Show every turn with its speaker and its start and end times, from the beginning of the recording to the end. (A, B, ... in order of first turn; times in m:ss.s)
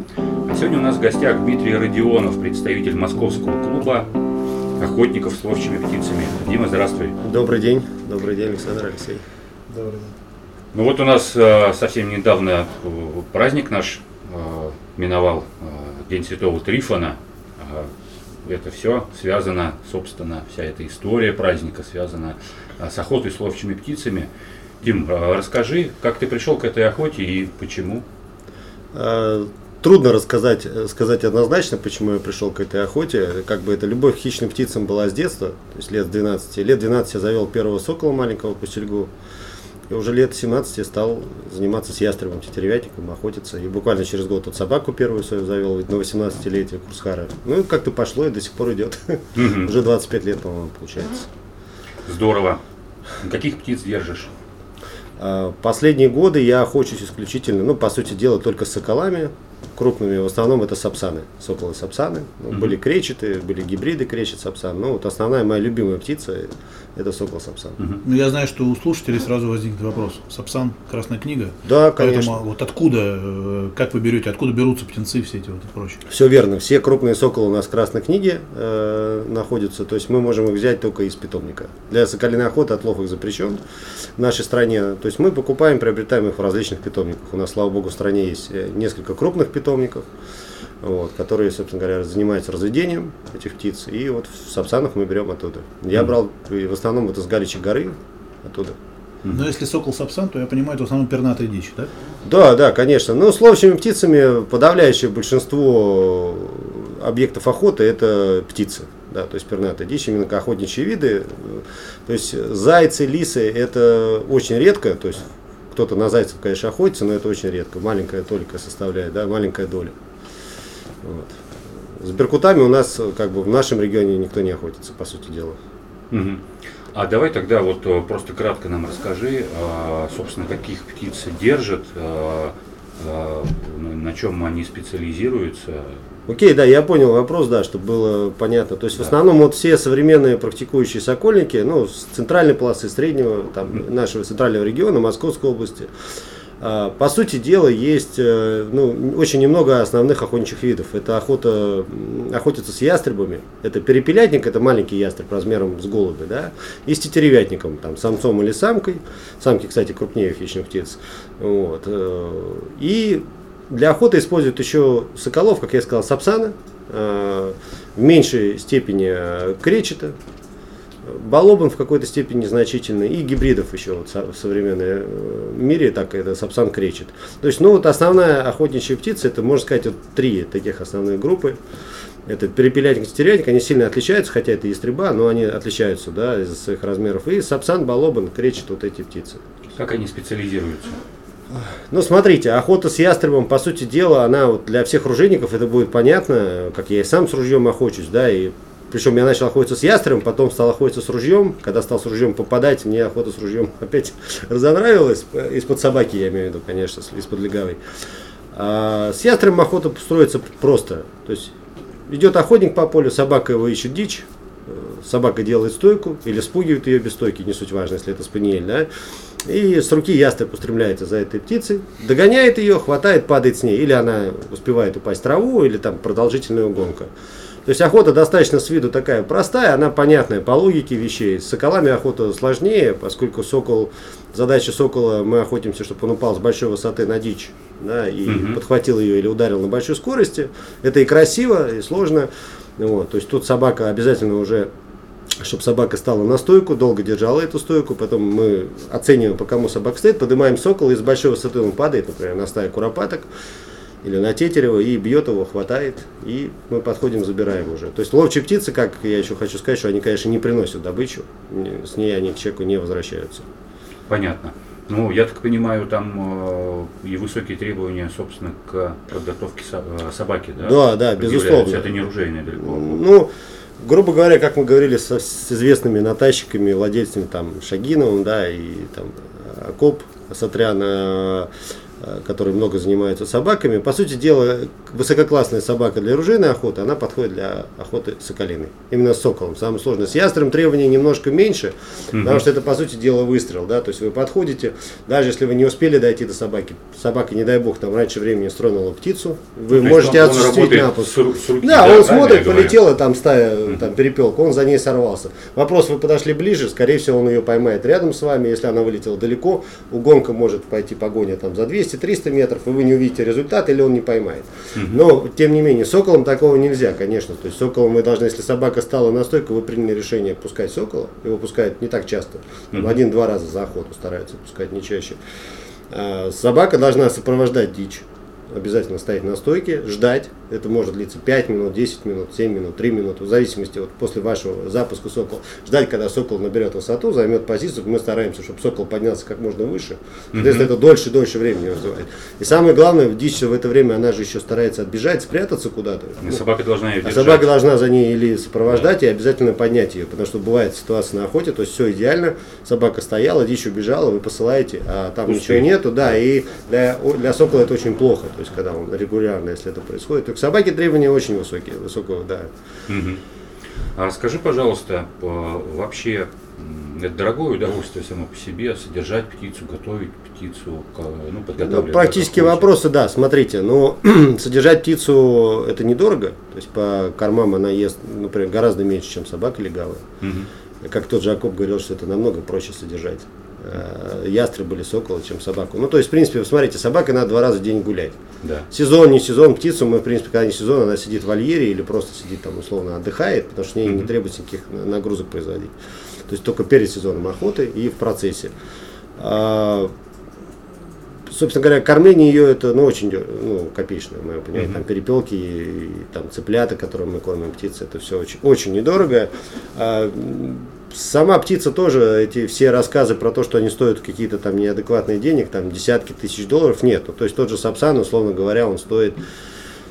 0:00.4-0:04.1 A
0:04.8-0:07.2 A
0:07.2-0:09.2 B
0:09.7-0:10.1 C
0:10.7-0:17.9 A
0:18.4-0:24.3 A
0:24.8-0:28.0 A
0:28.9-0:39.1 B
0:39.9-0:51.3 B
0:49.3-0:49.7 A
0:52.0-0:52.6 A
0:53.2-0:54.3 A
0:55.2-1:07.8 B
1:08.0-1:16.0 C
1:11.6-1:12.4 B
1:16.1-1:23.6 B
1:24.2-1:30.1 B
1:30.8-1:38.8 B
1:39.3-1:41.9 C
1:42.2-1:59.9 B
2:01.0-2:01.4 B
2:02.0-2:05.6 B
2:06.1-2:06.4 A
2:06.9-2:16.0 A
2:16.3-2:25.9 B
2:26.6-2:50.2 B
2:51.0-3:01.6 B
3:02.2-3:09.4 B
3:09.7-3:11.0 A
3:11.5-3:27.8 B
3:28.5-3:31.5 B
3:32.1-3:38.9 B
3:39.4-3:47.1 B
3:47.6-4:04.7 B
3:58.2-3:58.6 A
4:05.4-4:13.3 B
4:14.0-4:23.5 B
4:24.1-4:33.0 A
4:30.6-5:25.2 B
4:52.1-4:52.4 A
4:59.7-5:02.8 A
5:14.7-5:15.0 A
5:25.9-5:46.4 B
5:40.3-5:40.7 A
5:46.2-5:47.5 A
5:47.0-6:02.5 B
5:55.3-5:55.6 A
6:02.9-6:03.2 A
6:03.9-6:12.7 A
6:11.6-6:20.0 B
6:20.2-6:20.5 A
6:20.8-6:28.2 B
6:28.7-6:35.7 B
6:36.3-6:38.5 B
6:39.2-6:39.9 B
6:41.3-6:59.2 B